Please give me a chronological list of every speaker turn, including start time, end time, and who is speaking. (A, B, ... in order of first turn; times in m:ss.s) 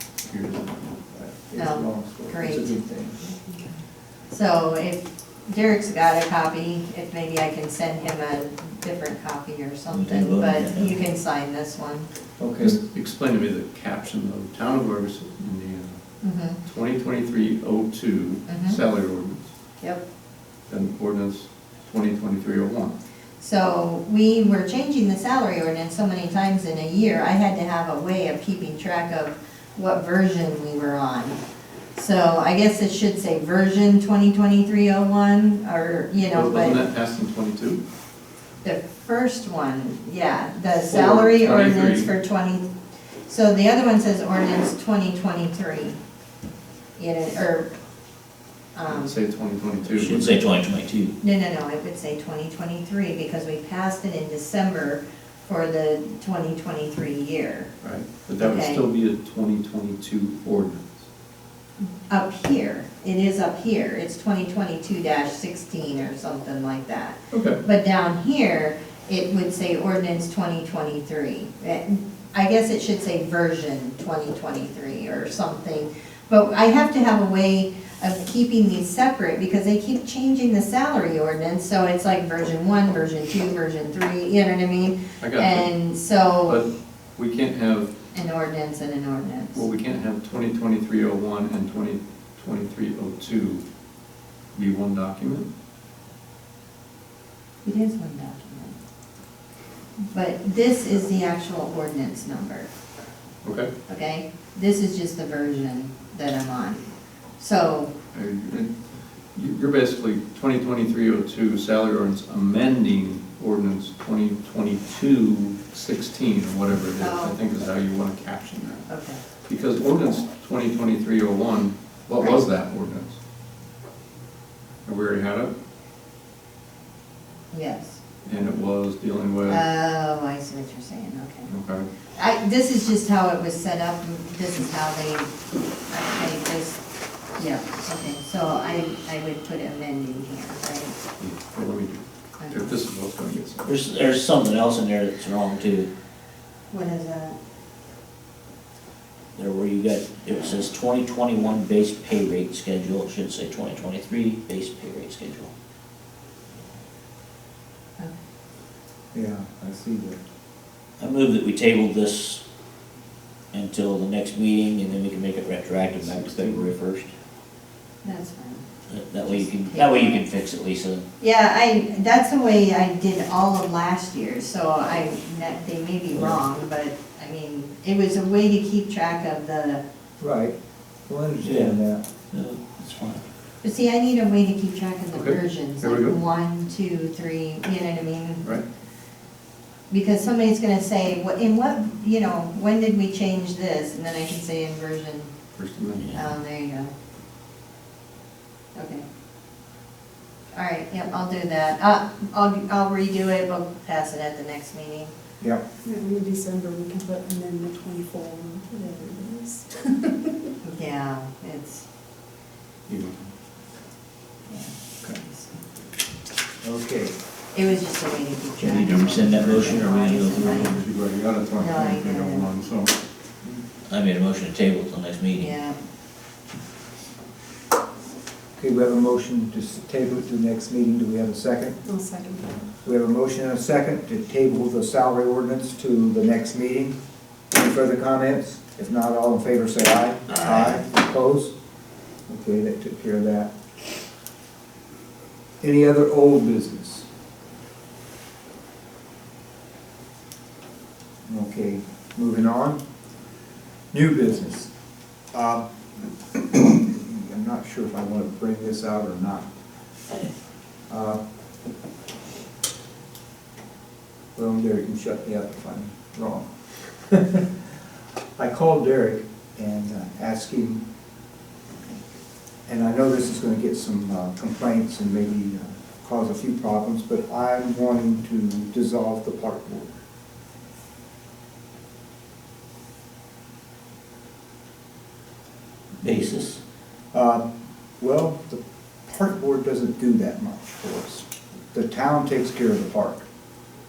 0:00.2-0:01.0 A
0:01.1-0:03.2 B
0:01.6-0:02.8 C
0:03.3-0:03.8 D
0:04.3-0:12.1 C
0:09.9-0:11.0 E
0:12.4-0:12.8 B
0:12.6-0:16.0 A
0:16.2-0:16.6 C
0:16.6-0:19.5 A
0:18.4-0:18.8 C
0:20.7-0:22.9 A
0:23.4-0:31.4 C
0:31.9-0:36.8 C
0:36.2-0:37.8 A
0:38.6-0:42.7 C
0:40.9-0:42.1 A
0:43.2-0:46.0 C
0:47.0-0:47.7 C
0:48.7-0:49.2 C
0:48.8-0:50.4 A
0:49.9-0:51.1 E
0:51.2-0:57.7 C
0:57.8-1:01.0 A
0:58.4-0:58.8 C
1:02.1-1:26.6 C
1:07.3-1:07.6 A
1:25.2-1:28.0 A
1:28.1-1:29.6 C
1:29.5-1:33.6 A
1:34.5-1:35.5 A
1:37.6-1:38.8 C
1:40.0-1:42.7 C
1:43.4-1:43.7 A
1:43.9-1:47.9 C
1:48.1-2:03.2 A
1:57.0-1:57.4 C
1:58.9-1:59.2 C
2:04.8-2:05.5 A
2:07.5-2:08.0 C
2:08.2-2:09.6 A
2:09.5-2:11.5 C
2:11.5-2:11.9 A
2:12.1-2:15.3 C
2:15.9-2:16.8 C
2:17.3-2:21.0 C
2:21.2-2:23.7 A
2:22.4-2:22.7 C
2:23.6-2:25.9 E
2:26.7-2:27.4 C
2:29.3-2:35.5 E
2:39.1-2:40.2 B
2:41.0-2:42.4 E
2:43.5-2:47.1 E
2:46.2-2:46.7 B
2:48.0-2:48.6 C
2:48.9-2:51.0 E
2:49.2-2:50.2 C
2:51.2-2:59.8 C
3:00.2-3:00.5 B
3:01.1-3:02.0 B
3:01.4-3:01.8 E
3:02.3-3:03.2 E
3:03.6-3:08.5 C
3:05.1-3:06.2 A
3:09.9-3:15.3 C
3:15.5-3:16.2 A
3:16.1-3:16.9 C
3:18.7-3:19.0 C
3:20.5-3:25.1 C
3:25.8-3:30.4 D
3:30.6-3:31.8 C
3:32.9-3:33.3 A
3:34.5-3:35.6 C
3:36.6-3:37.1 B
3:37.5-3:40.8 C
3:38.6-3:40.7 E
3:39.3-3:42.9 A
3:41.6-3:42.5 C
3:43.9-3:45.5 E
3:45.4-3:45.8 C
3:48.6-3:51.8 B
3:51.8-3:52.7 D
3:52.8-3:57.0 B
3:57.5-4:01.5 B
4:00.4-4:00.8 E
4:02.3-4:03.5 B
4:05.6-4:07.1 B
4:11.2-4:12.8 B
4:13.9-4:14.7 B
4:15.3-4:15.6 B
4:16.4-4:19.5 B
4:20.9-4:21.2 B
4:24.4-4:27.5 B
4:28.4-4:30.8 B
4:32.7-4:39.9 B
4:46.0-4:46.6 E
4:46.0-4:46.3 B
4:47.1-4:47.4 B
4:48.0-4:53.2 B